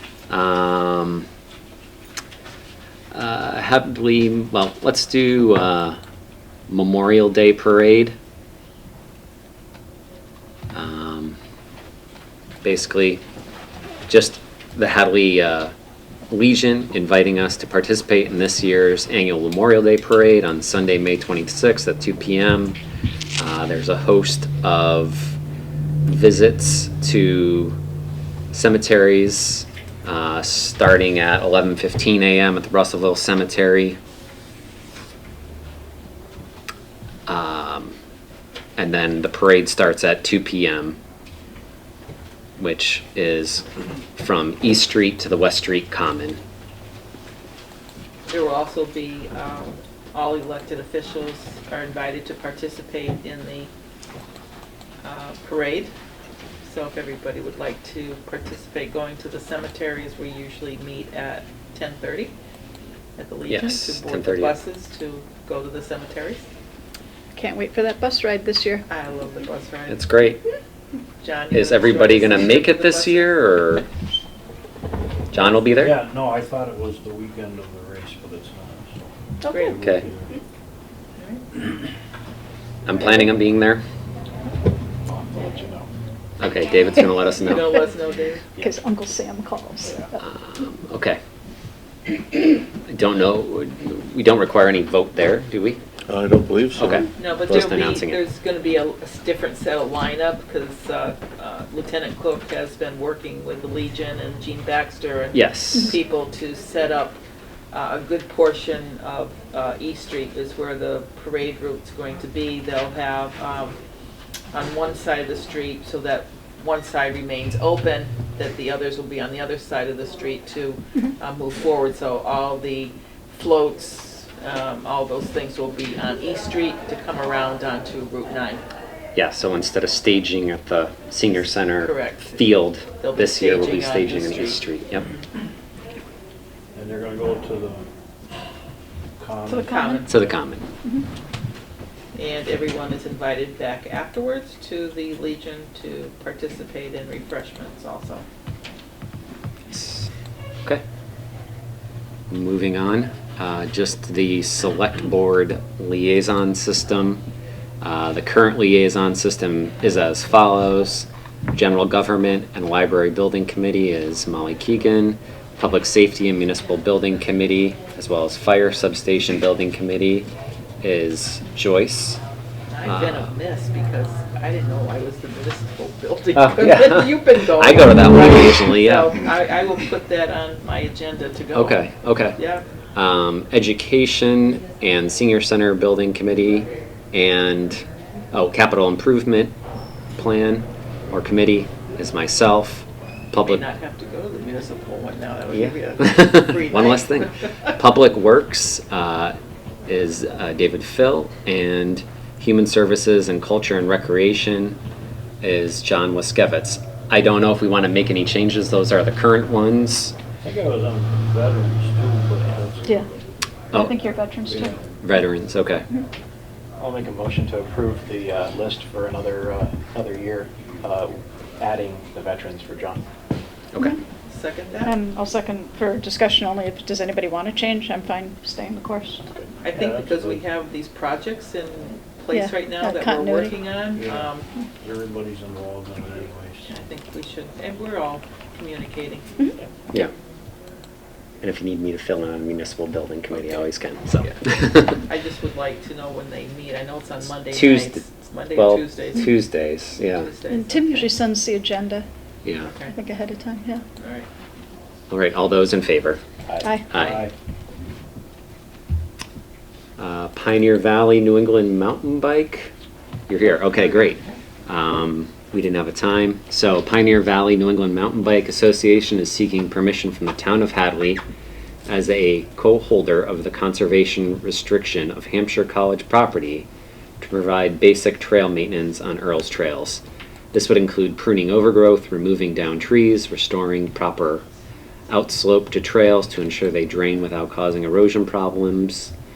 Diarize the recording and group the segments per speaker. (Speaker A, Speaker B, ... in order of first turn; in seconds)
Speaker A: 0.3-1.3, 3.1-6.0, 6.7-8.2, 10.7-11.4, 12.6-13.2, 14.1-15.7, 16.3-22.8, 23.4-25.4, 26.1-27.8, 28.5-34.0, 37.3-38.0, 38.8-41.0, 42.6-46.4, 63.5-64.6, 69.9-70.4, 71.5-73.9, 75.3-76.0, 79.8-80.0, 82.8-83.8, 86.4-87.8, 90.2-91.2, 92.8-95.8, 96.8-98.2, 105.3-106.0, 129.2-135.1, 140.1-140.7, 149.7-150.1, 152.3-157.2, 157.8-170.3, 170.8-172.2, 172.9-173.3, 176.3-179.2, 181.5-182.4, 182.9-189.5, 190.2-193.7, 195.5-199.4, 199.9-204.8, 205.4-210.2, 215.0-215.9, 223.7-224.0, 241.4-245.0, 247.5-248.0, 248.6-250.3, 252.4-252.7, 255.1-256.2, 256.9-257.3, 260.0-262.7, 263.3-271.2, 271.9-276.7, 277.2-284.4, 285.1-289.1
Speaker B: 48.3-53.7, 55.0-55.9, 56.6-62.3, 63.2-66.5, 68.9-70.1, 71.2-73.4, 79.5-79.9, 81.2-81.6, 87.3-88.6, 97.2-107.2, 107.7-113.8, 114.5-128.6, 131.8-134.7, 139.6-140.1, 142.2-148.2, 172.7-181.8, 182.4-182.7, 193.4-197.4, 224.3-224.9, 229.6-234.5, 236.7-239.4, 244.9-249.3, 250.0-251.2, 252.6-253.0, 254.0-254.3, 263.5-264.4
Speaker C: 67.3-68.8, 88.6-90.2, 139.5-140.2, 213.7-214.7, 224.8-229.2, 232.3-233.5, 250.5-252.1, 252.9-253.8
Speaker D: 75.7-80.3, 136.7-137.9, 139.2-139.9, 210.4-213.0, 214.5-214.8, 229.7-230.4, 233.9-236.8, 256.5-257.3
Speaker E: 85.1-85.9, 216.8-223.0